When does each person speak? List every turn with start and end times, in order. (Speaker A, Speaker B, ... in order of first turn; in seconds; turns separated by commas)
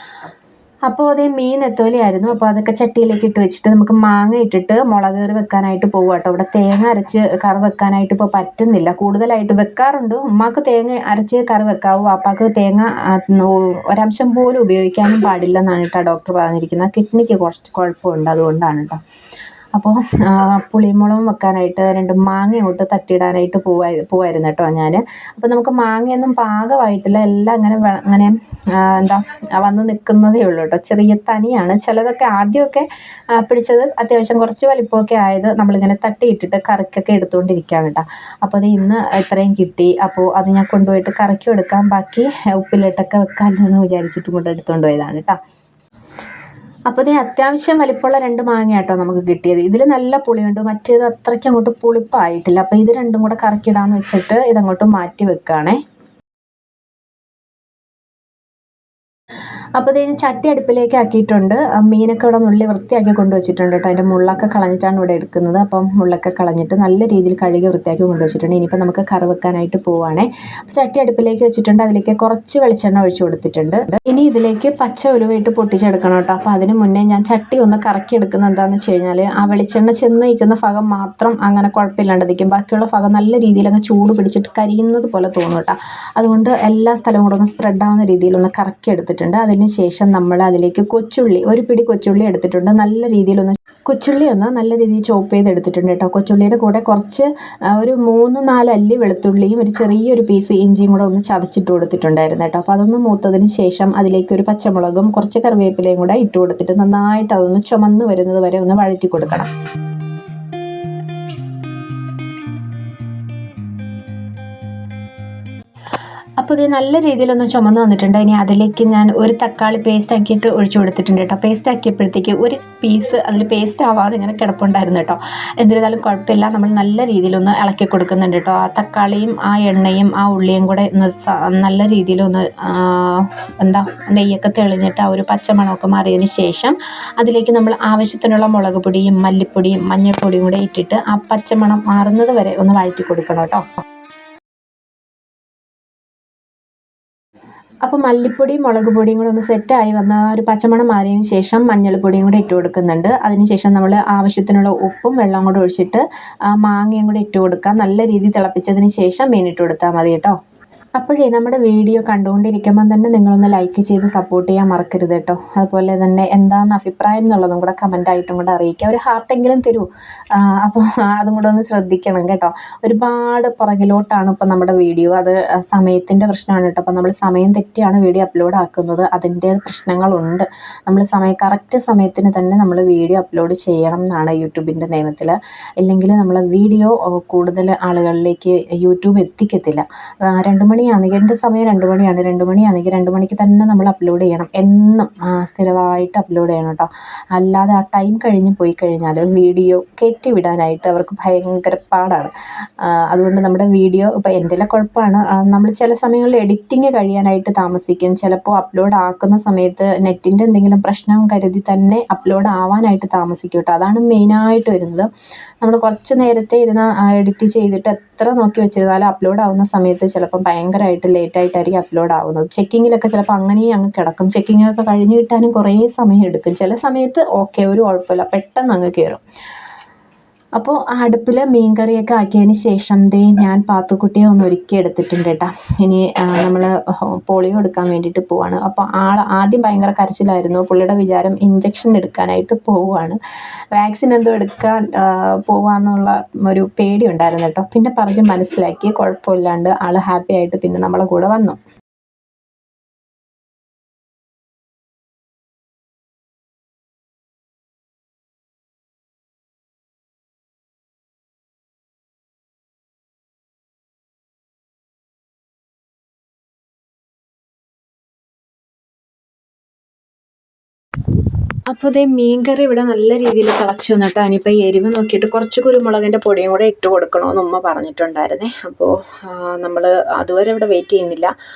Speaker A: 0.9-19.0, Speaker A: 19.7-45.4, Speaker A: 46.9-55.8, Speaker A: 59.8-109.5, Speaker A: 116.4-143.7, Speaker A: 147.8-160.4, Speaker A: 161.0-215.1, Speaker A: 215.6-229.2, Speaker A: 230.6-243.2, Speaker A: 243.7-251.6, Speaker A: 271.6-281.3